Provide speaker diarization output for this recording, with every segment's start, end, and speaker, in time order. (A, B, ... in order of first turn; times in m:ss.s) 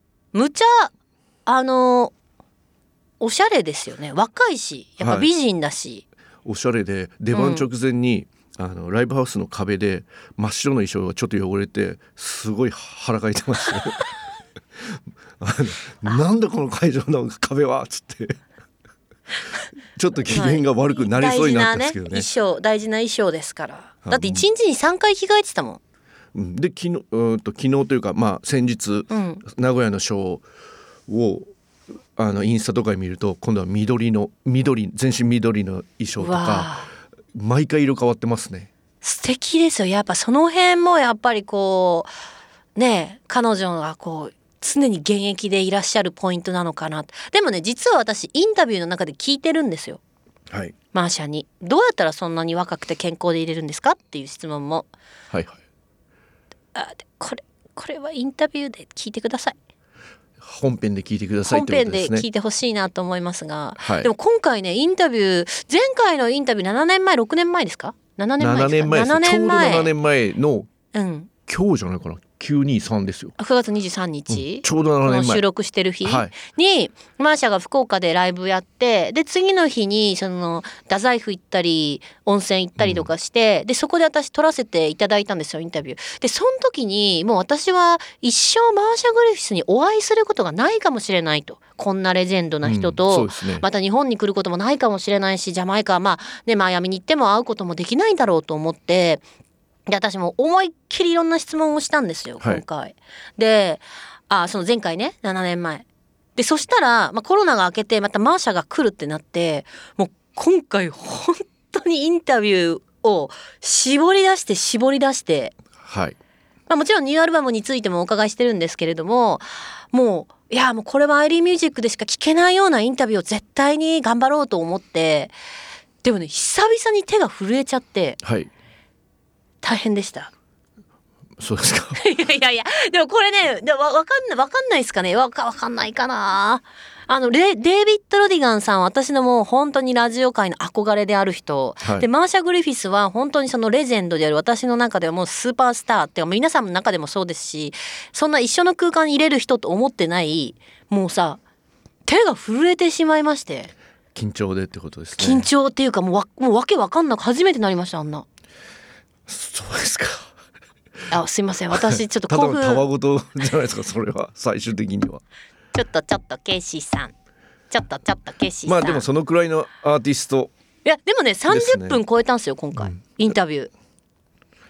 0:00.3-0:00.9 A
0:01.5-0:02.2 A
0:03.2-0:06.0 A
0:05.0-0:05.3 B
0:06.4-0:14.1 B
0:07.3-0:07.7 A
0:15.4-0:18.4 B
0:20.0-0:22.3 B
0:20.3-0:25.8 A
0:24.1-0:24.5 B
0:26.3-0:30.4 B
0:29.1-0:29.4 A
0:31.1-0:31.5 B
0:32.2-0:36.8 B
0:36.2-0:36.9 A
0:37.3-0:38.7 B
0:39.0-0:42.1 A
0:42.8-0:50.0 A
0:50.9-0:54.9 A
0:55.3-0:55.6 B
0:56.7-0:59.6 A
1:00.4-1:02.3 B
1:01.4-1:09.9 A
1:03.8-1:04.1 B
1:08.4-1:10.7 B
1:10.9-1:11.3 A
1:11.5-1:13.4 B
1:13.4-1:39.2 A
1:14.3-1:15.4 B
1:16.0-1:16.3 B
1:22.8-1:23.1 B
1:32.6-1:33.7 B
1:39.9-1:55.6 A
1:55.8-1:56.2 B
1:56.7-2:05.4 A
2:06.0-2:08.2 A
2:08.2-2:08.5 B
2:09.6-2:10.3 A
2:11.4-2:12.0 B
2:12.0-2:31.4 A
2:21.8-2:22.1 B
2:32.1-2:33.7 A
2:34.2-2:35.5 B
2:35.2-2:38.3 A
2:39.3-2:40.3 B
2:41.1-2:42.9 A
2:41.7-2:45.2 B
2:45.7-2:47.1 A
2:47.7-2:49.1 A
2:48.7-2:50.5 B
2:50.8-2:53.7 A
2:51.5-2:52.0 B
2:52.8-2:53.2 B